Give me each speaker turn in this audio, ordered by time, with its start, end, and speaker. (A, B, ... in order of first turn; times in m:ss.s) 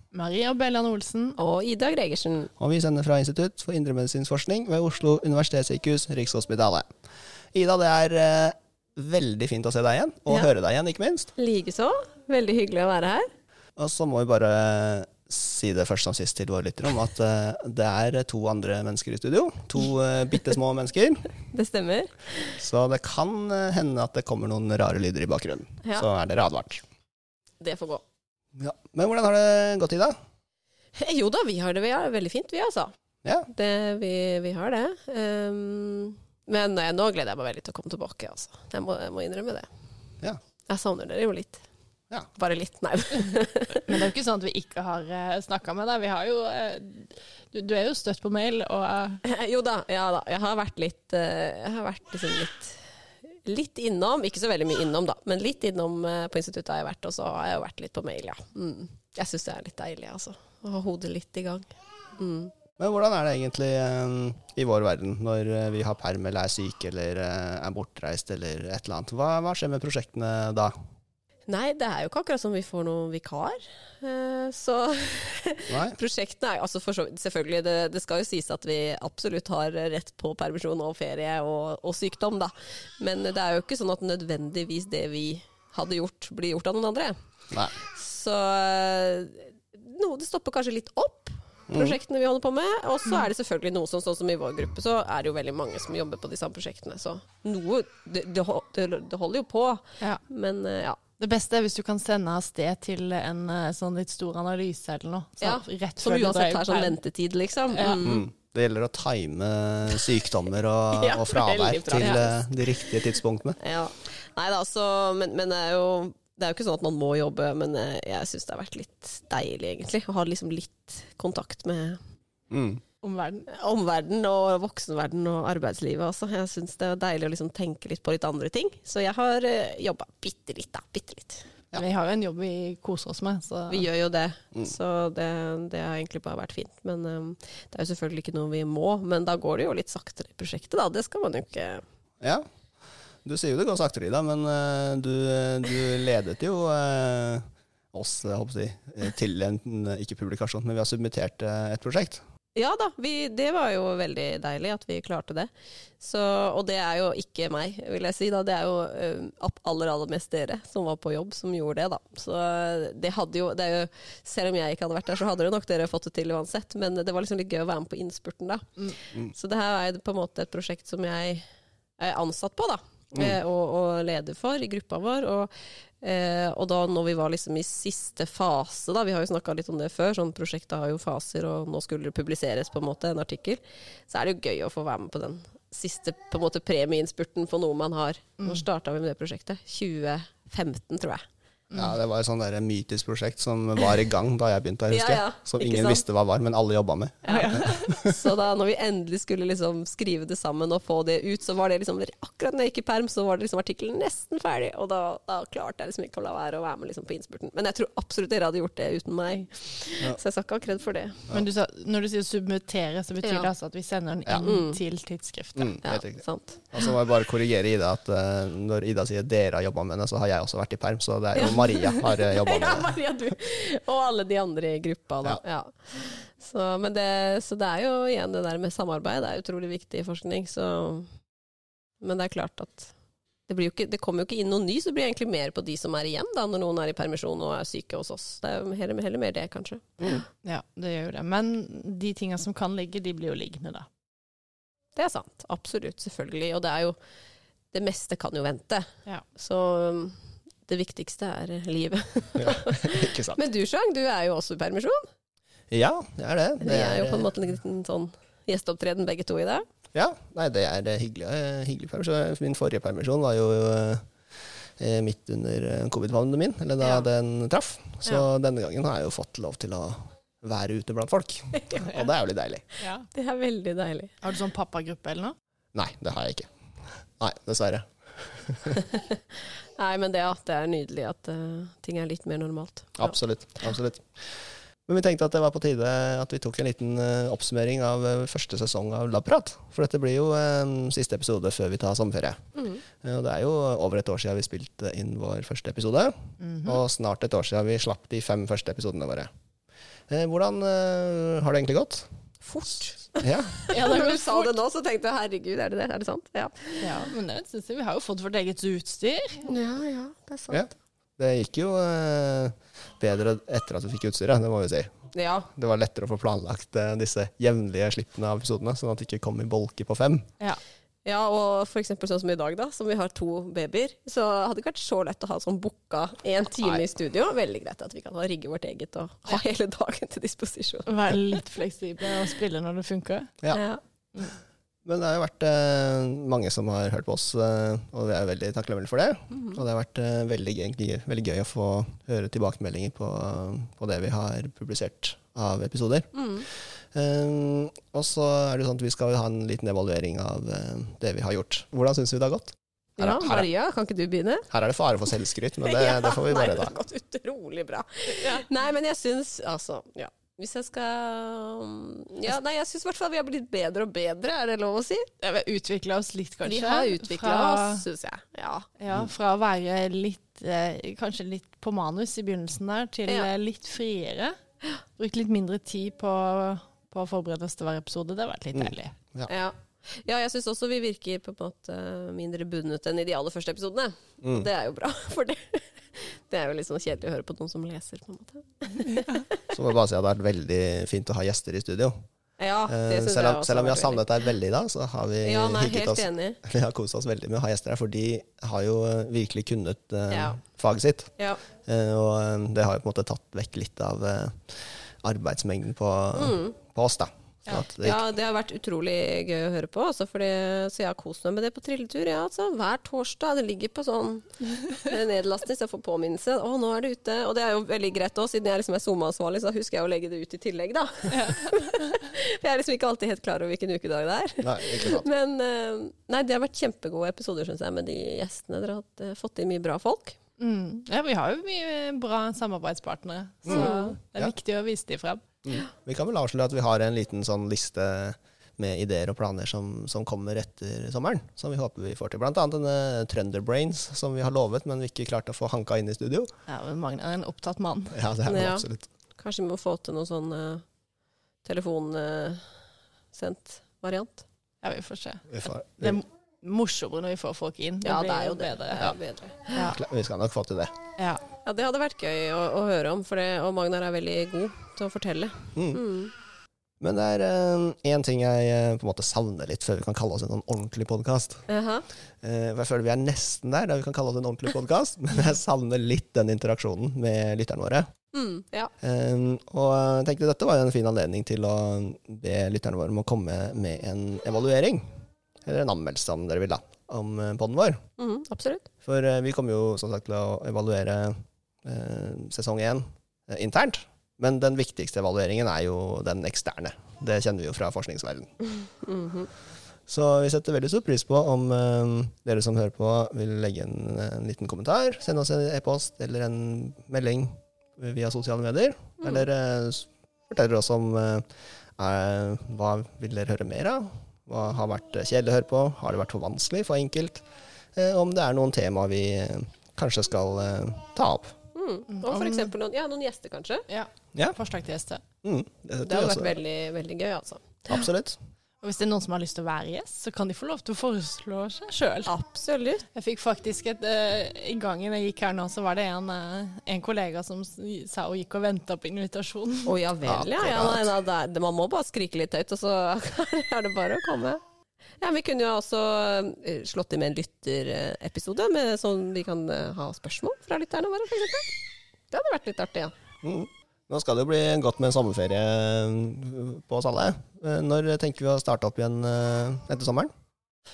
0:00.1-0:01.4 A
0:01.4-0:02.5 B
0:02.6-0:06.9 C
0:07.5-0:11.3 C
0:11.4-0:13.3 B
0:13.8-0:21.3 C
0:21.5-0:22.6 B
0:22.6-0:26.8 C
0:27.6-0:28.0 B
0:28.6-0:30.2 C
0:31.0-0:32.9 B
0:33.5-0:39.7 B
0:40.7-0:41.6 B
0:42.4-0:43.9 B
0:43.9-0:49.2 A
0:49.2-0:52.8 B
0:53.4-1:01.7 B
1:02.2-1:02.5 B
1:02.8-1:10.7 C
1:11.5-1:27.1 B
1:15.7-1:16.0 C
1:27.9-1:41.0 B
1:31.7-1:32.0 C
1:41.2-1:47.0 A
1:45.4-1:48.3 B
1:47.7-1:48.0 A
1:48.0-1:53.6 C
1:50.9-1:52.9 B
1:53.6-2:02.0 B
2:02.5-2:02.8 C
2:03.0-2:03.5 A
2:03.6-2:11.5 B
2:11.7-2:13.9 A
2:13.7-2:21.8 B
2:23.2-2:32.2 C
2:32.6-2:35.5 B
2:36.0-2:51.4 B
2:52.0-2:55.5 B
2:56.0-3:11.2 B
3:08.4-3:08.6 A
3:11.7-3:12.0 A
3:11.8-3:18.2 C
3:14.9-3:16.0 B
3:17.2-3:31.2 B
3:17.3-3:17.9 A
3:31.3-3:35.8 A
3:33.2-3:33.5 B
3:34.4-3:34.8 B
3:35.6-3:43.0 C
3:35.8-3:36.9 B
3:41.4-3:51.1 B
3:52.0-3:52.9 B
3:53.5-4:00.2 B
4:00.4-4:03.9 A
4:05.0-4:07.0 B
4:07.7-4:10.2 B
4:10.7-4:15.0 B
4:12.4-4:13.4 C
4:15.7-4:17.3 C
4:16.6-4:19.6 B
4:19.9-4:24.1 C
4:24.8-4:32.6 C
4:26.8-4:27.1 A
4:32.8-4:33.1 A
4:33.1-4:34.1 B
4:34.2-4:35.4 A
4:35.8-4:36.5 C
4:37.2-4:38.8 C
4:38.8-4:39.1 B
4:39.8-4:43.2 B
4:43.0-4:59.3 C
4:52.6-4:52.8 B
4:56.4-4:56.8 A
5:00.1-5:02.1 C
5:02.4-5:07.1 B
5:03.2-5:03.6 C
5:03.7-5:04.6 A
5:06.8-5:09.4 A
5:09.5-5:10.7 B
5:10.5-5:15.0 C
5:15.1-5:15.5 B
5:15.5-5:20.3 C
5:21.0-5:31.2 B
5:30.9-5:33.3 A
5:33.5-5:33.8 B
5:34.8-5:46.1 C
5:39.3-5:39.6 B
5:46.2-5:46.4 B
5:46.9-5:53.5 C
5:53.0-5:54.5 B
5:54.5-5:56.8 C
5:55.6-6:05.1 B
5:58.1-5:58.4 A
6:05.2-6:07.8 A
6:06.4-6:08.7 B
6:08.8-6:14.4 A
6:15.0-6:19.0 A
6:18.5-6:19.3 C
6:19.3-6:29.4 B
6:24.2-6:24.5 C
6:29.5-6:32.0 C
6:32.4-6:34.1 B
6:32.7-6:41.1 C
6:35.2-6:36.4 B
6:40.1-6:40.4 B
6:41.6-6:48.1 C
6:46.2-6:46.6 B
6:47.8-7:10.2 B
7:01.1-7:02.0 A
7:04.4-7:05.1 C
7:10.4-7:15.2 A
7:13.5-7:14.3 C
7:13.5-7:14.0 B
7:15.4-7:26.3 C
7:26.5-7:28.0 A
7:27.9-7:28.9 C
7:28.3-7:30.6 B
7:31.4-7:32.4 B
7:33.1-7:34.2 B
7:34.6-7:39.0 A
7:35.3-7:36.0 C
7:37.8-7:39.6 B
7:39.5-7:39.8 A
7:39.6-7:40.8 C
7:41.0-7:41.2 A
7:41.4-7:46.1 B
7:45.6-7:45.8 C
7:46.8-7:51.4 C
7:51.5-7:51.9 B
7:52.2-7:57.9 C
7:58.1-7:58.7 B
7:58.8-8:04.9 C
8:05.5-8:07.8 C
8:08.0-8:08.7 B
8:08.8-8:18.3 C
8:18.9-8:19.3 B
8:19.9-8:31.3 C
8:31.8-8:37.2 C
8:37.8-8:41.3 C
8:41.6-8:43.7 B
8:42.0-8:42.5 A
8:43.7-8:45.0 A
8:45.2-8:46.4 C
8:45.9-8:47.9 B
8:47.7-8:48.2 C
8:48.6-8:52.1 A
8:52.1-8:52.9 B
8:52.9-8:59.7 A
8:59.7-9:04.4 B
9:00.0-9:00.9 C
9:05.0-9:11.5 B
9:12.1-9:12.9 B
9:13.2-9:20.1 C